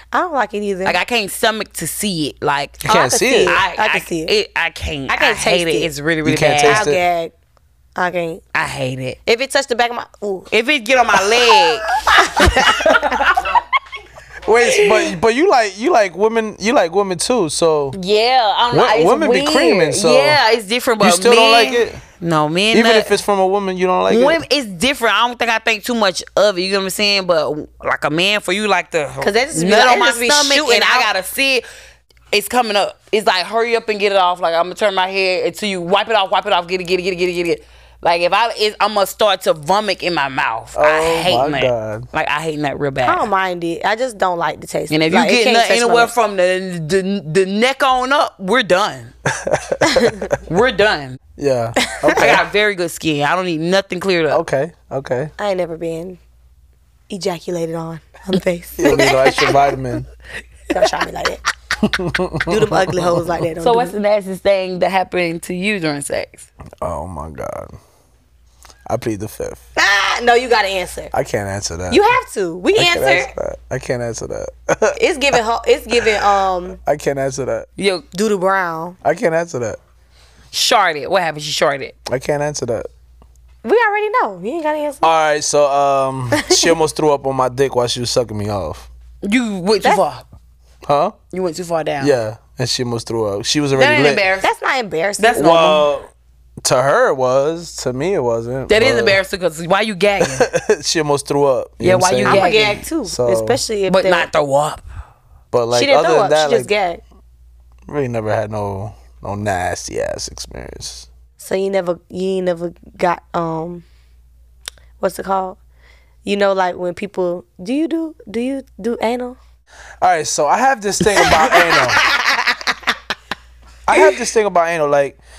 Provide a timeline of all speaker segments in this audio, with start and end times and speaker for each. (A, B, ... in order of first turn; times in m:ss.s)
0:00.1-0:01.0 A
0:00.8-0:06.9 B
0:02.8-0:03.6 C
0:02.8-0:04.3 A
0:05.1-0:05.9 A
0:06.2-0:07.0 C
0:06.6-0:07.3 A
0:08.0-0:08.4 A
0:08.5-0:09.2 B
0:09.3-0:10.5 A
0:10.5-0:12.0 B
0:12.1-0:13.0 A
0:12.7-0:13.3 C
0:13.0-0:13.3 B
0:14.5-0:18.0 C
0:17.9-0:23.2 B
0:18.7-0:20.4 C
0:21.0-0:22.0 C
0:22.7-0:24.4 C
0:24.1-0:31.6 B
0:29.2-0:31.1 A
0:32.3-0:43.3 B
0:40.8-0:42.1 C
0:43.0-0:46.1 A
0:44.9-0:49.1 B
0:49.3-0:50.4 C
0:50.4-0:51.2 B
0:51.4-0:52.4 C
0:52.0-0:52.3 A
0:52.1-0:54.4 B
0:54.3-0:55.3 C
0:55.4-0:56.2 A
0:57.1-0:59.6 A
0:58.8-1:00.0 C
1:00.7-1:01.4 A
1:01.8-1:03.3 C
1:02.5-1:04.0 A
1:03.6-1:06.5 B
1:06.8-1:07.8 C
1:08.9-1:09.6 C
1:09.8-1:11.1 A
1:11.1-1:12.1 C
1:11.9-1:13.3 A
1:12.8-1:15.0 C
1:15.0-1:16.8 A
1:16.7-1:17.7 C
1:17.8-1:18.0 B
1:18.1-1:19.0 A
1:19.0-1:19.8 C
1:20.5-1:22.0 B
1:22.1-1:22.9 C
1:23.6-1:25.1 A
1:25.0-1:28.9 C
1:26.3-1:26.8 A
1:29.2-1:30.2 B
1:30.8-1:31.2 C
1:31.3-1:32.1 B
1:32.0-1:34.2 C
1:33.8-1:34.5 B
1:34.4-1:35.8 A
1:35.2-1:35.9 B
1:35.4-1:36.1 C
1:36.6-1:39.2 C
1:38.7-1:40.5 B
1:40.2-1:43.6 C
1:41.8-1:42.8 B
1:42.2-1:44.3 A
1:43.9-1:44.8 B
1:45.5-1:46.7 C
1:45.7-1:47.0 A
1:47.9-1:51.1 C
1:51.4-1:53.8 A
1:55.0-1:55.6 A
1:56.2-1:59.4 A
2:00.0-2:02.0 C
2:01.2-2:02.9 A
2:03.9-2:05.2 C